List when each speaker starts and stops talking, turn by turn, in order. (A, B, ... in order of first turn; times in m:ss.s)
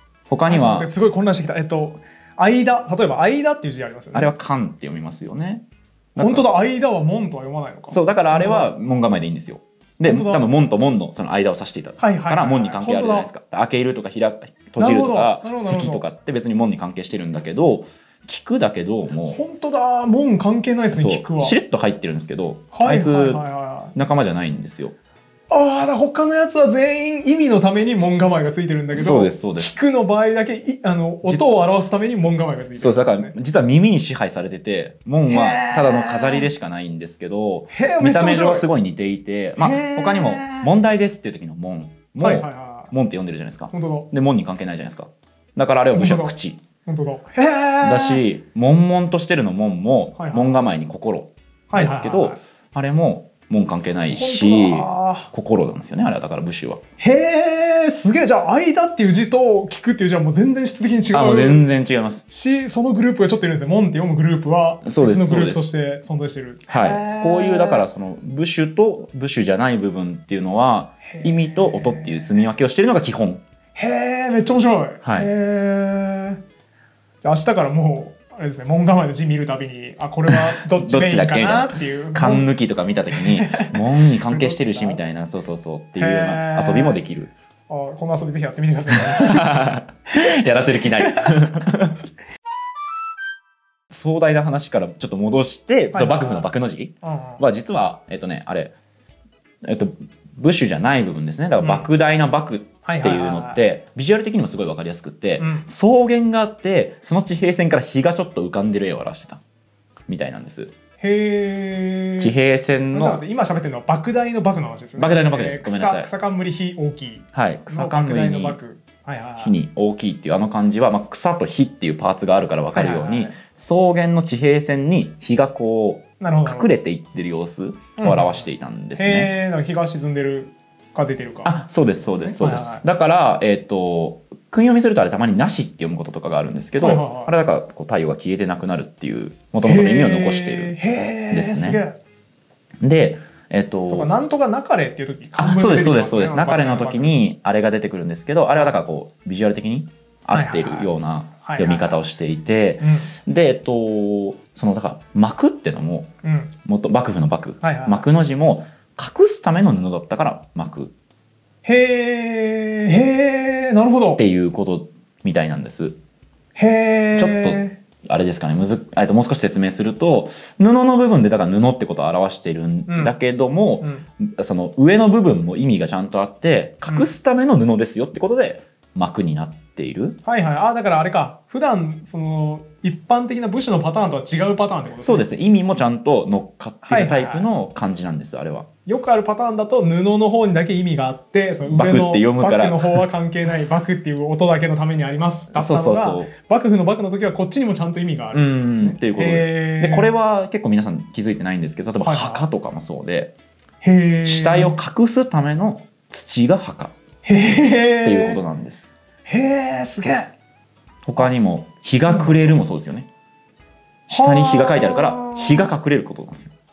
0:00.3-0:00.9 A
0:00.4-0:04.3 B
0:04.1-0:05.6 A
0:06.2-0:06.5 A
0:06.2-0:08.7 B
0:07.9-0:19.4 A
0:10.0-0:10.5 B
0:12.0-0:13.3 B
0:14.8-0:16.0 B
0:19.2-0:21.6 B
0:20.9-0:23.4 A
0:22.7-0:23.9 B
0:23.9-0:24.9 A
0:25.5-0:33.3 B
0:28.9-0:29.8 A
0:32.8-0:46.6 A
0:35.3-0:36.5 B
0:37.7-0:38.7 B
0:39.6-0:40.7 B
0:42.2-0:42.9 B
0:43.7-0:44.1 B
0:45.9-0:48.2 B
0:47.8-0:56.8 A
0:50.2-0:50.6 B
0:51.7-0:52.4 B
0:54.1-0:55.3 B
0:57.0-1:01.6 B
1:01.1-1:02.2 A
1:02.3-1:07.8 B
1:04.8-1:05.7 A
1:06.7-1:13.4 A
1:11.1-1:12.3 B
1:13.7-1:16.4 B
1:15.0-1:15.3 A
1:17.2-1:22.5 B
1:20.3-1:27.3 A
1:23.1-1:25.2 B
1:26.0-1:27.0 B
1:27.7-1:29.5 B
1:29.0-1:32.0 A
1:31.0-1:31.3 B
1:33.9-1:38.7 A
1:35.9-1:36.5 B
1:37.0-1:37.4 B
1:39.6-1:49.4 A
1:41.6-1:41.9 B
1:42.8-1:43.6 B
1:45.4-1:45.7 B
1:50.1-1:50.7 A
1:51.0-1:52.3 B
1:52.2-1:53.2 A
1:52.9-1:59.6 B
1:55.0-1:56.1 A
1:57.3-1:58.6 A
1:59.4-2:09.3 A
2:02.7-2:03.4 B
2:06.2-2:06.7 B
2:08.0-2:12.8 B
2:11.4-2:21.8 A
2:16.8-2:17.3 B
2:19.6-2:22.0 B
2:22.8-2:24.1 A
2:23.9-2:27.1 B
2:25.4-2:36.1 A
2:30.3-2:32.0 B
2:32.8-2:33.1 B
2:36.2-2:36.5 B
2:36.6-2:40.9 A
2:37.6-2:38.0 B
2:41.6-2:44.2 B
2:44.2-2:46.0 A
2:46.5-2:47.8 B
2:47.1-3:00.2 A
2:52.9-2:53.1 B
2:56.8-2:57.1 B
3:00.2-3:05.3 B
3:05.0-3:08.7 A
3:06.8-3:07.5 B
3:08.8-3:20.1 B
3:11.7-3:13.0 A
3:15.5-3:16.3 A
3:18.3-3:23.3 A
3:22.0-3:22.5 B
3:23.8-3:24.7 B
3:24.2-3:26.9 A
3:27.2-3:28.4 B
3:28.0-3:29.0 A
3:29.2-3:30.3 B
3:31.0-3:33.1 A
3:32.0-3:32.6 B
3:34.1-3:36.5 A
3:34.1-3:35.7 B